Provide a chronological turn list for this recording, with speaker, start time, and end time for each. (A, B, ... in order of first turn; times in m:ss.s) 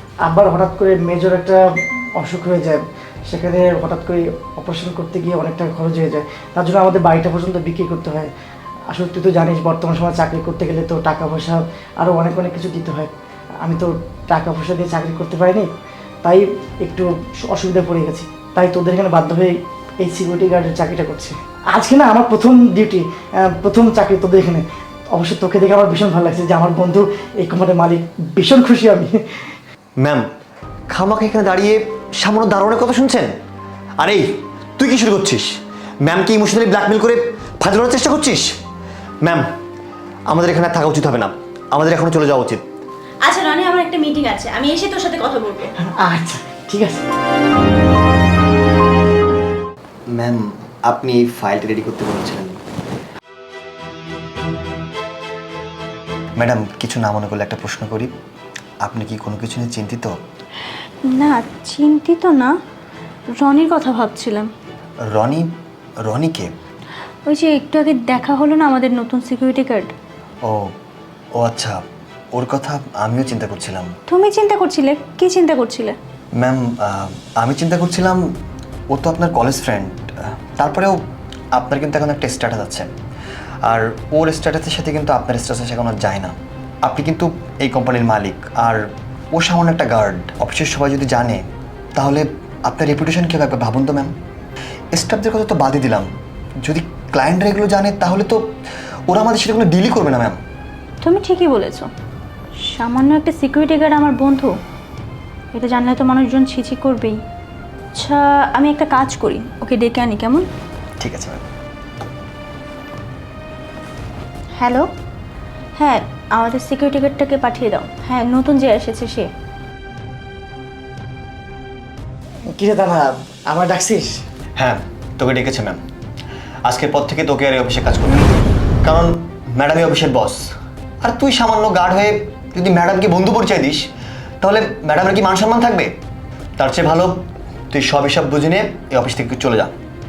0:00.2-0:01.6 A
0:02.2-0:08.3 A
0:08.9-0:13.1 A
0:13.6-0:15.7 A
0:16.2-0:29.2 A
0:30.0-0:30.2 B
0:30.9-0:33.3 B
0:34.0-0:34.2 B
0:34.8-0:35.5 B
0:36.0-0:38.5 B
0:40.3-0:42.6 B
0:43.2-0:45.7 C
0:46.0-0:47.0 A
0:50.2-0:52.6 B
0:56.4-0:58.1 B
0:58.8-1:00.1 B
1:01.1-1:02.5 C
1:03.4-1:04.5 C
1:05.1-1:05.5 B
1:06.0-1:06.5 B
1:07.3-1:09.9 C
1:11.4-1:11.8 B
1:12.3-1:13.9 B
1:14.1-1:16.0 C
1:16.4-1:18.2 B
1:18.9-1:21.0 B
1:21.6-1:22.9 B
1:23.6-1:28.8 B
1:29.3-1:31.4 B
1:32.0-1:34.1 B
1:34.9-1:36.1 B
1:36.6-1:38.4 B
1:39.1-1:40.4 B
1:41.0-1:41.9 C
1:42.6-1:44.5 C
1:45.5-1:47.2 C
1:47.9-1:50.5 C
1:51.0-1:51.4 B
1:54.6-1:54.9 C
1:55.8-1:59.3 C
2:02.5-2:04.2 A
2:04.6-2:05.8 B
2:06.6-2:08.3 B
2:08.8-2:10.4 B
2:11.0-2:13.8 B
2:14.4-2:15.9 B
2:16.6-2:17.2 B
2:17.7-2:19.7 B